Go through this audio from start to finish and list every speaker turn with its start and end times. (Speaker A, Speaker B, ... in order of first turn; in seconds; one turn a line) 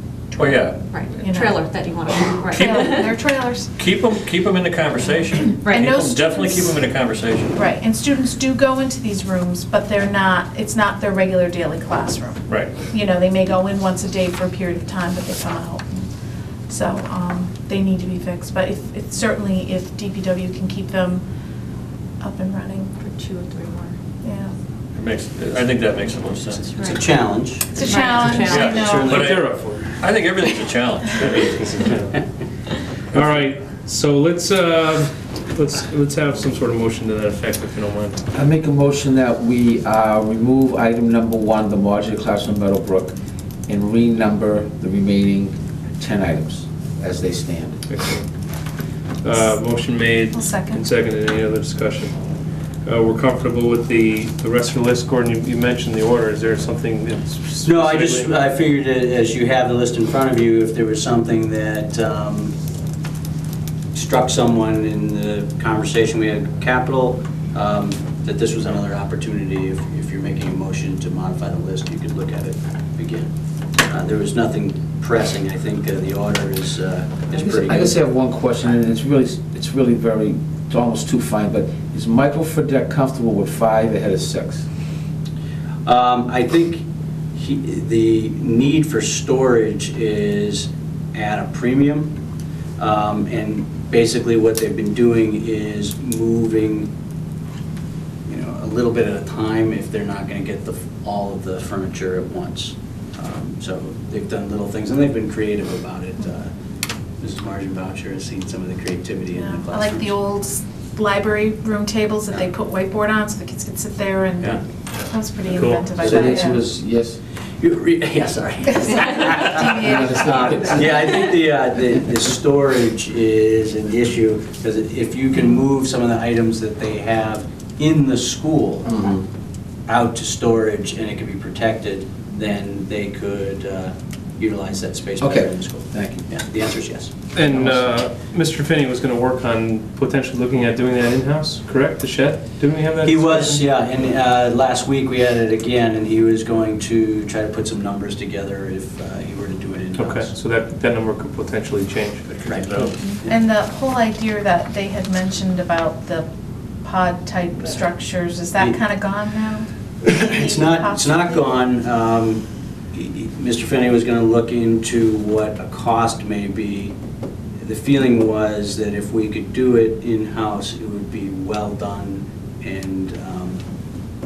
Speaker A: 0.3-1.6
Speaker B: 0.3-1.0
Speaker C: 0.9-3.1
Speaker B: 2.5-3.0
Speaker A: 2.6-3.7
Speaker B: 3.8-7.5
Speaker A: 5.7-6.8
Speaker A: 7.5-16.0
Speaker A: 16.7-21.2
Speaker A: 22.2-22.9
Speaker C: 23.0-24.0
Speaker A: 24.2-24.6
Speaker B: 24.9-26.8
Speaker C: 26.7-27.1
Speaker D: 26.8-27.8
Speaker A: 27.7-29.1
Speaker C: 27.8-29.1
Speaker B: 28.4-31.6
Speaker D: 28.4-29.5
Speaker E: 29.1-29.8
Speaker E: 31.2-32.2
Speaker E: 33.1-38.2
Speaker B: 33.1-33.4
Speaker F: 38.3-43.1
Speaker F: 43.7-47.8
Speaker E: 47.9-48.2
Speaker E: 49.2-52.1
Speaker A: 50.3-50.8
Speaker E: 52.8-58.3
Speaker D: 57.6-62.5
Speaker D: 63.9-73.3
Speaker D: 73.9-78.0
Speaker F: 77.3-84.7
Speaker D: 85.8-92.1
Speaker D: 92.8-96.9
Speaker D: 98.3-106.5
Speaker D: 107.2-110.2
Speaker A: 109.3-116.6
Speaker E: 115.5-115.9
Speaker D: 116.0-116.4
Speaker F: 116.0-117.2
Speaker D: 117.6-128.9
Speaker A: 118.7-120.4
Speaker F: 119.5-121.2
Speaker F: 128.8-129.2
Speaker D: 129.9-137.1
Speaker F: 135.2-136.3
Speaker E: 137.3-143.7
Speaker D: 143.0-150.3
Speaker E: 149.9-152.9
Speaker B: 152.4-153.0
Speaker D: 152.4-153.3
Speaker A: 153.2-156.3
Speaker A: 156.8-161.5
Speaker D: 160.0-166.9
Speaker D: 167.6-173.6